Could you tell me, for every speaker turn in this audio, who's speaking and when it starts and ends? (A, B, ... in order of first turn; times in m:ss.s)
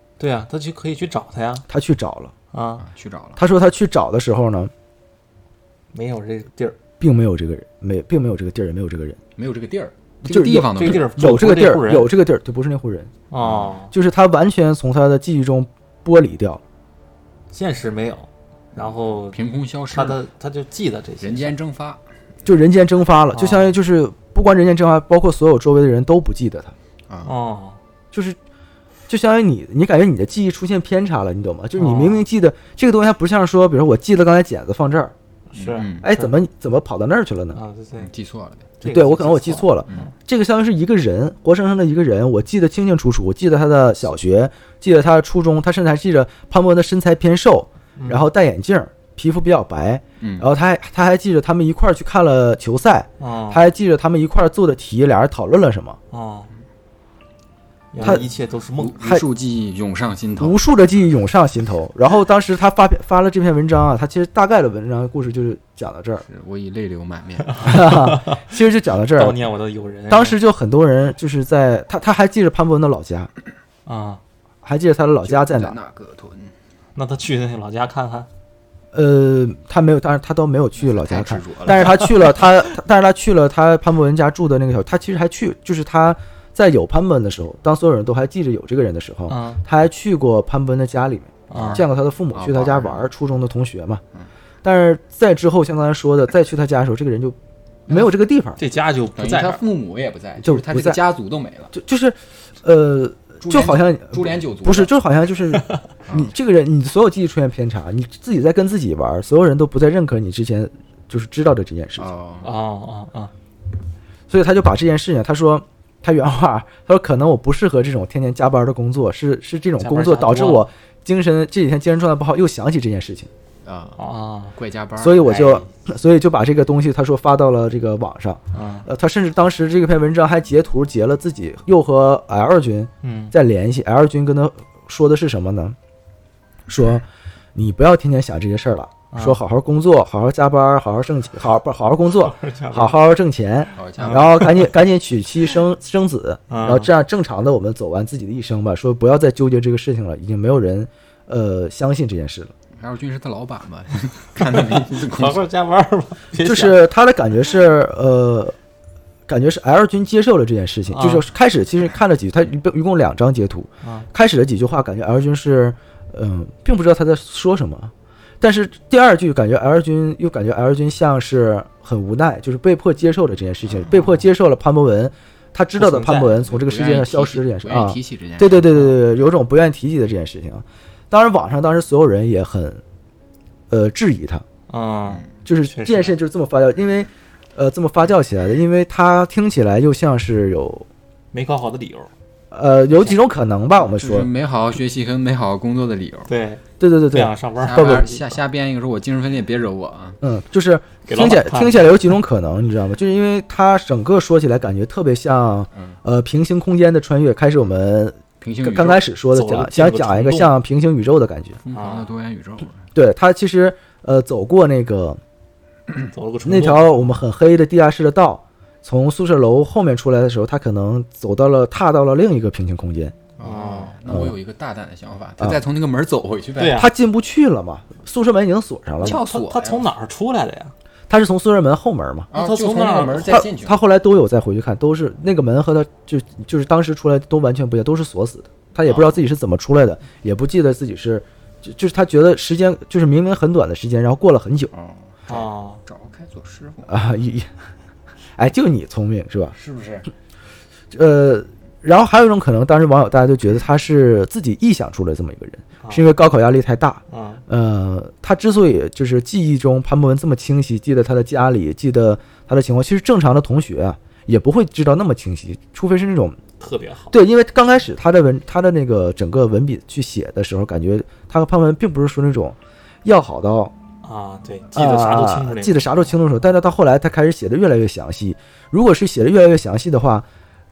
0:00.2-0:01.6 A
0:01.7-0:02.3 B
0:02.5-0:02.9 A
0:02.8-0:03.4 C
0:03.4-0:04.7 B
0:05.9-0:06.8 A
0:07.0-0:09.2 B
0:09.4-0:11.1 C
0:10.2-0:13.1 B
0:10.4-0:12.1 A
0:13.3-0:13.9 A
0:13.4-0:13.8 C
0:13.9-0:16.6 B
0:17.5-0:19.4 A
0:18.8-0:20.2 C
0:19.9-0:21.5 A
0:21.2-0:22.0 C
0:22.4-0:26.7 B
0:23.3-0:23.8 A
0:27.1-0:27.4 C
0:27.2-0:27.8 A
0:28.1-0:28.4 B
0:29.1-0:35.1 B
0:31.8-0:32.2 A
0:35.5-0:36.3 A
0:35.6-0:36.0 C
0:36.0-0:37.6 B
0:37.5-0:38.1 A
0:38.0-0:38.7 C
0:38.8-0:40.1 A
0:38.8-0:56.0 B
0:48.0-0:48.3 A
0:50.2-0:50.5 C
0:53.2-0:53.6 A
0:56.1-0:56.5 A
0:57.9-0:59.0 A
0:58.0-1:00.6 C
1:00.4-1:06.3 B
1:06.3-1:07.8 C
1:07.5-1:08.4 A
1:07.6-1:09.4 B
1:09.1-1:10.4 A
1:10.1-1:13.3 B
1:13.9-1:14.2 A
1:14.6-1:15.8 B
1:15.2-1:16.5 C
1:17.0-1:18.3 A
1:18.9-1:34.0 B
1:20.8-1:22.1 C
1:29.3-1:29.6 A
1:31.5-1:31.8 A
1:31.5-1:33.1 C
1:34.6-1:37.4 B
1:37.9-1:38.6 B
1:37.9-1:39.6 A
1:39.2-1:41.7 C
1:40.4-1:41.0 B
1:41.7-1:52.1 B
1:43.4-1:44.9 C
1:46.1-1:46.3 C
1:52.0-1:52.5 C
1:52.4-1:53.3 A
1:54.3-2:03.3 B
1:59.8-2:00.7 A
2:03.6-2:04.0 C
2:04.0-2:04.6 A
2:04.5-2:05.3 C
2:05.0-2:15.8 B
2:05.2-2:05.7 A
2:08.5-2:08.9 A
2:13.0-2:13.3 A
2:16.7-2:32.5 B
2:19.1-2:19.4 A
2:22.1-2:23.0 A
2:23.8-2:24.5 C
2:24.0-2:24.7 A
2:26.5-2:26.9 A
2:32.8-2:35.4 C
2:34.4-2:36.9 A
2:36.4-2:38.6 B
2:39.3-3:02.8 B
2:40.9-2:41.2 A
2:43.8-2:44.1 A
2:55.8-2:56.4 A
2:56.4-2:58.9 C
3:03.7-3:04.4 B
3:04.7-3:06.2 A
3:05.4-3:10.9 B
3:11.3-3:12.1 A
3:12.5-3:14.3 B
3:13.8-3:16.3 C
3:16.3-3:18.4 A
3:16.8-3:18.1 B
3:17.6-3:20.2 C
3:20.2-3:31.6 B
3:21.1-3:22.0 A
3:28.4-3:29.0 C
3:29.3-3:30.5 A
3:31.6-3:32.8 C
3:31.7-3:32.1 A
3:33.0-3:35.2 B
3:36.0-3:37.0 A
3:36.4-3:43.2 B
3:43.4-3:46.8 C
3:43.4-3:44.0 A
3:44.1-3:44.4 B
3:46.6-3:46.9 A
3:46.8-3:49.2 B
3:49.0-3:49.9 C
3:49.0-3:50.7 A
3:51.1-3:52.3 B
3:52.3-3:53.8 C
3:52.3-3:53.5 A
3:53.3-4:04.7 B
3:58.9-3:59.2 C
4:04.7-4:06.9 C
4:05.3-4:05.8 A
4:06.9-4:07.5 B
4:08.4-4:09.6 B
4:09.6-4:10.1 C
4:10.9-4:26.4 B
4:17.1-4:17.4 A
4:26.6-4:27.1 A
4:27.1-4:33.7 B
4:34.0-4:36.1 A
4:34.7-4:40.2 B